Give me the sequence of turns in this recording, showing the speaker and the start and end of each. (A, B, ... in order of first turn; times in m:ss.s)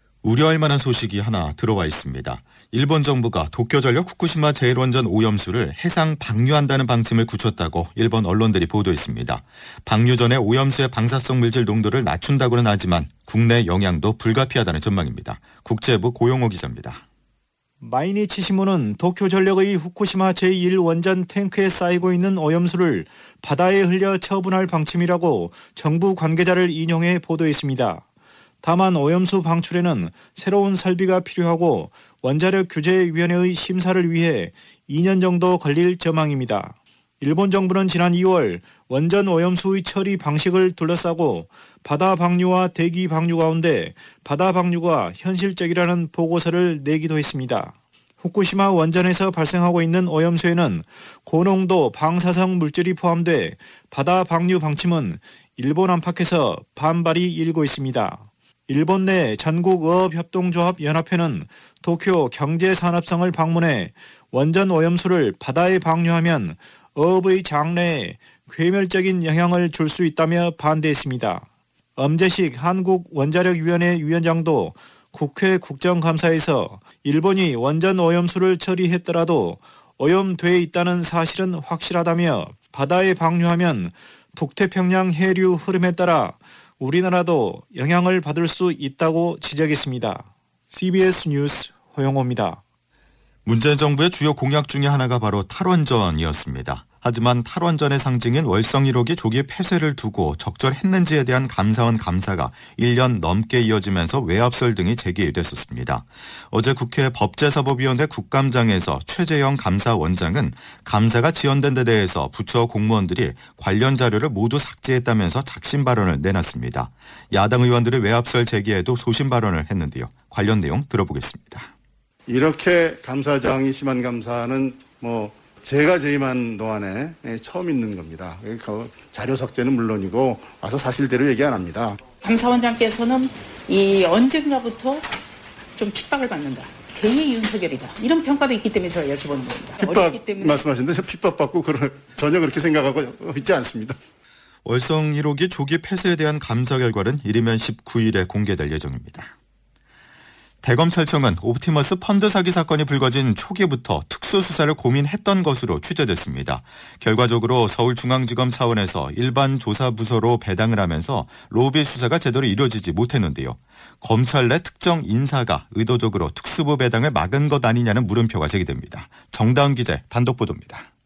0:00.2-0:17.0 A
0:17.8-0:28.0 B
0:28.6-1:11.4 B
1:12.0-1:32.6 B
1:33.4-2:01.7 A
2:02.3-2:12.0 C
2:12.2-2:15.0 D
2:15.8-2:20.6 D
2:19.8-2:24.0 C
2:24.6-2:29.3 A
2:30.6-2:50.9 A